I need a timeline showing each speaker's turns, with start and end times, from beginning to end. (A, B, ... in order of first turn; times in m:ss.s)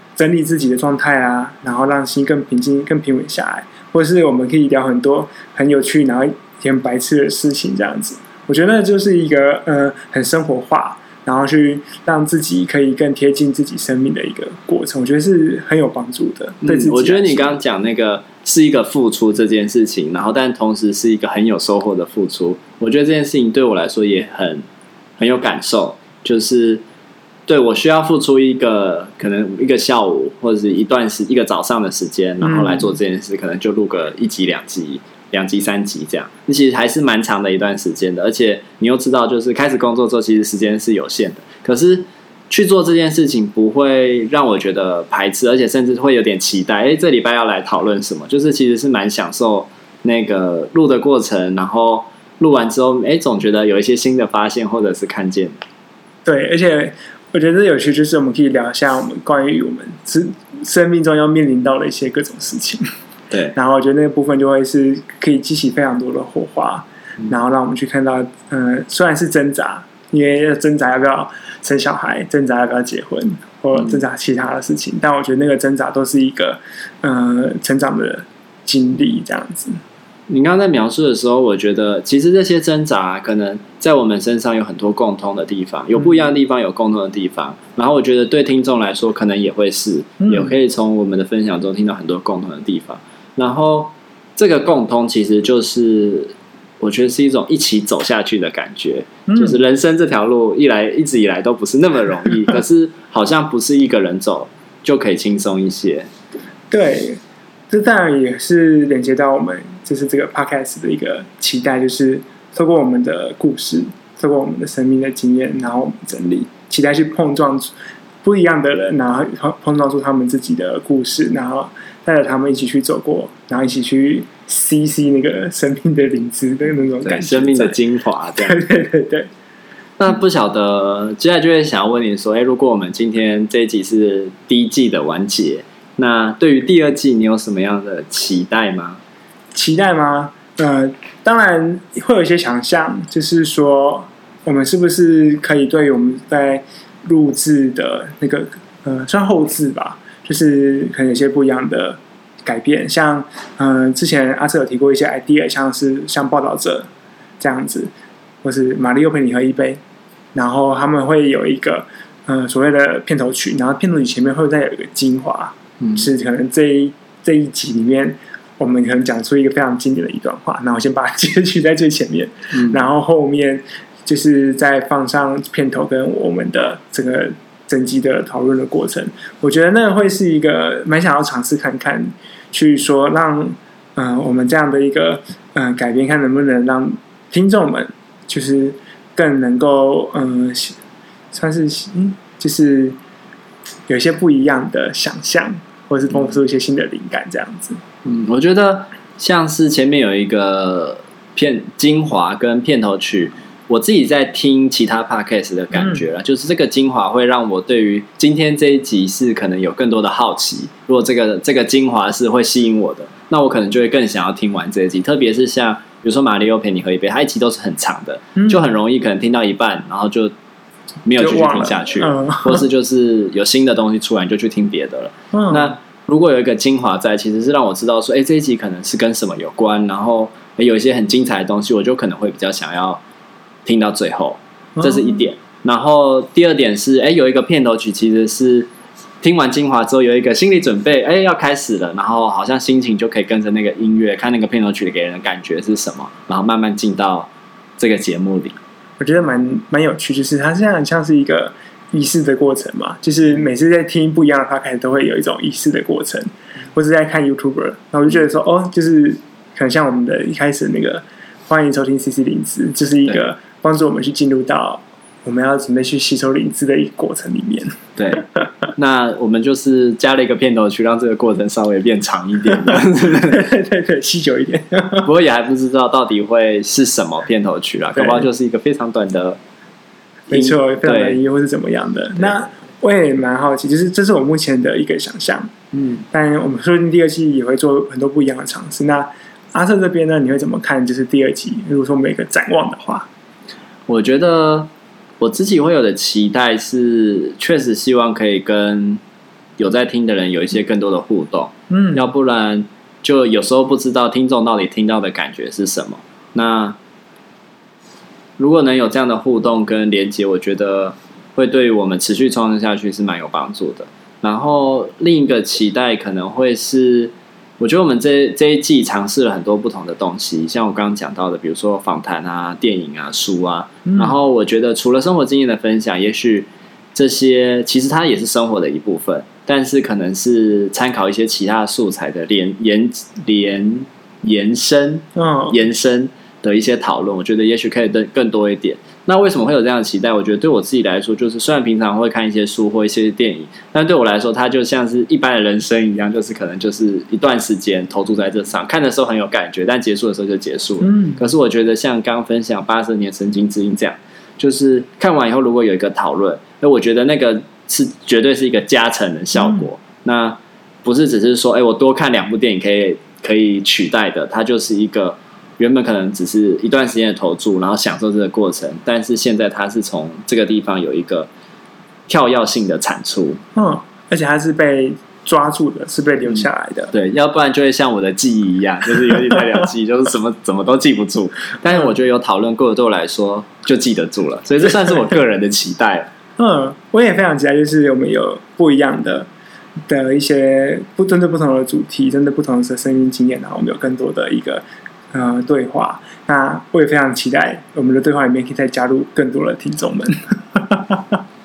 0:00.2-0:17.6 A
0:16.6-0:24.6 B
0:25.2-0:26.8 B
0:27.5-0:55.6 B
0:32.4-0:33.0 A
0:56.2-1:02.8 A
1:03.3-1:03.6 B
1:03.5-1:19.8 A
1:13.8-1:14.0 B
1:20.3-1:46.1 B
1:26.0-1:26.3 A
1:30.2-1:30.5 A
1:39.3-1:39.6 A
1:46.7-1:57.7 A
1:58.2-2:07.8 A
2:07.0-2:08.6 B
2:08.4-2:09.3 A
2:10.0-2:19.0 B
2:19.5-2:36.9 A
2:37.4-2:37.9 A
2:38.4-2:39.8 A
2:40.3-3:10.8 A
2:45.8-2:46.1 B
2:52.5-2:52.8 B
3:11.3-3:13.0 A
3:13.9-3:17.8 A
3:16.1-3:16.4 B
3:18.0-3:40.3 B
3:25.7-3:26.1 A
3:38.4-3:38.7 A
3:41.0-3:53.0 B
3:41.2-3:42.6 A
3:45.3-3:45.8 A
3:53.6-3:58.7 B
3:54.8-3:55.2 A
3:59.2-4:08.6 B
4:09.0-4:28.5 A
4:28.0-4:33.4 B
4:32.6-4:35.1 A
4:35.0-4:39.4 B
4:38.0-4:38.3 A
4:40.3-4:45.5 A
4:40.3-4:41.2 B
4:45.7-4:46.0 B
4:46.1-4:53.1 A
4:53.9-4:59.0 B
4:59.6-5:06.8 B
5:01.7-5:02.1 A
5:08.4-6:11.3 B
5:23.9-5:24.2 A
5:35.2-5:35.6 A
5:50.8-5:51.2 A
5:59.4-5:59.7 A
6:12.1-6:13.4 B
6:13.6-6:16.9 A
6:16.3-6:26.1 B
6:19.3-6:19.6 A
6:26.4-6:29.3 A
6:29.9-6:41.2 A